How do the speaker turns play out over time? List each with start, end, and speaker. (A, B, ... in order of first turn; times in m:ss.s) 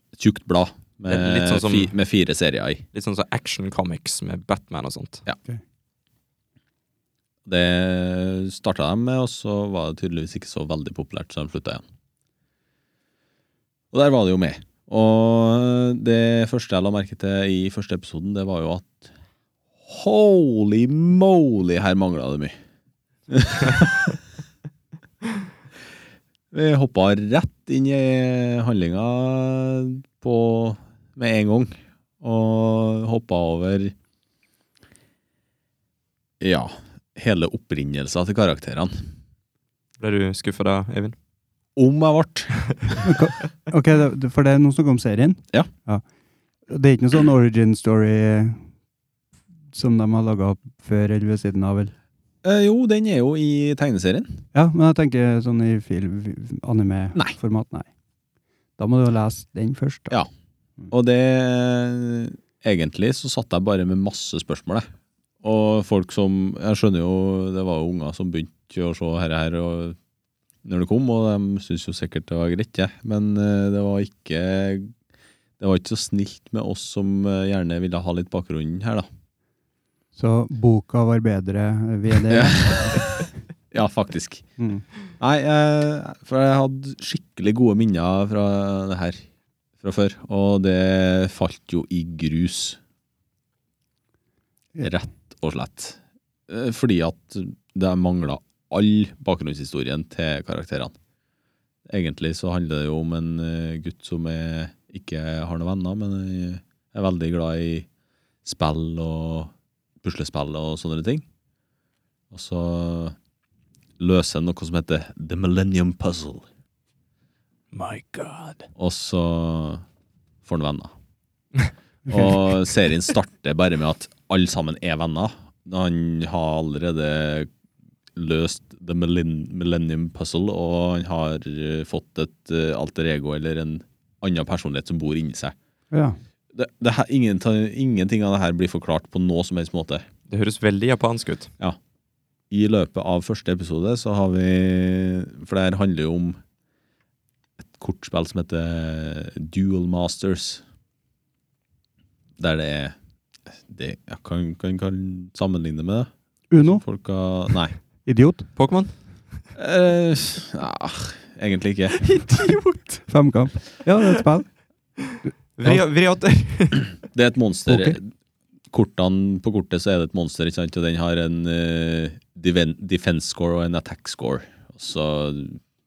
0:00.1-0:02.8 A
0:01.1-0:01.9 B
0:02.9-0:05.2 B
0:07.4-0:11.8 A
0:13.9-0:19.1 A
0:19.8-0:22.5 A
0:23.3-0:24.2 A
0:26.5-0:33.9 A
0:36.4-0:39.1 A
0:40.0-0:41.1 B
0:41.8-0:42.6 A
0:43.0-0:46.0 C
0:46.7-0:48.6 C
0:49.7-0:51.9 C
0:52.4-0:54.4 A
0:54.5-0:57.9 C
0:58.8-1:00.2 C
1:00.9-1:04.8 A
1:05.4-1:10.0 A
1:10.6-1:14.9 A
1:15.6-1:19.0 A
1:20.1-1:23.1 C
1:22.3-1:24.4 A
1:24.6-1:24.8 C
1:25.2-1:29.2 A
1:29.8-1:32.8 A
1:34.8-1:41.0 A
1:41.9-1:47.9 A
1:48.4-1:49.5 A
1:50.0-1:51.2 A
1:52.3-1:53.1 A
1:54.0-1:56.5 A
1:57.7-1:58.7 B
1:58.8-1:59.8 A
2:00.4-2:00.9 A
2:02.0-2:07.5 A
2:08.1-2:15.5 A
2:15.9-2:16.2 C
2:16.5-2:20.0 A
2:20.3-2:21.5 B
2:22.5-2:26.4 A
2:27.6-2:30.6 A
2:32.4-2:33.0 A
2:33.5-2:36.1 A
2:36.5-2:36.8 C
2:36.6-2:37.7 A
2:38.0-2:38.5 C
2:38.6-2:38.9 B
2:39.5-2:42.0 A
2:41.9-2:43.1 B
2:43.1-2:44.5 C
2:45.1-2:46.9 B
2:47.0-2:48.1 A
2:47.7-2:48.0 C
2:48.7-2:55.6 A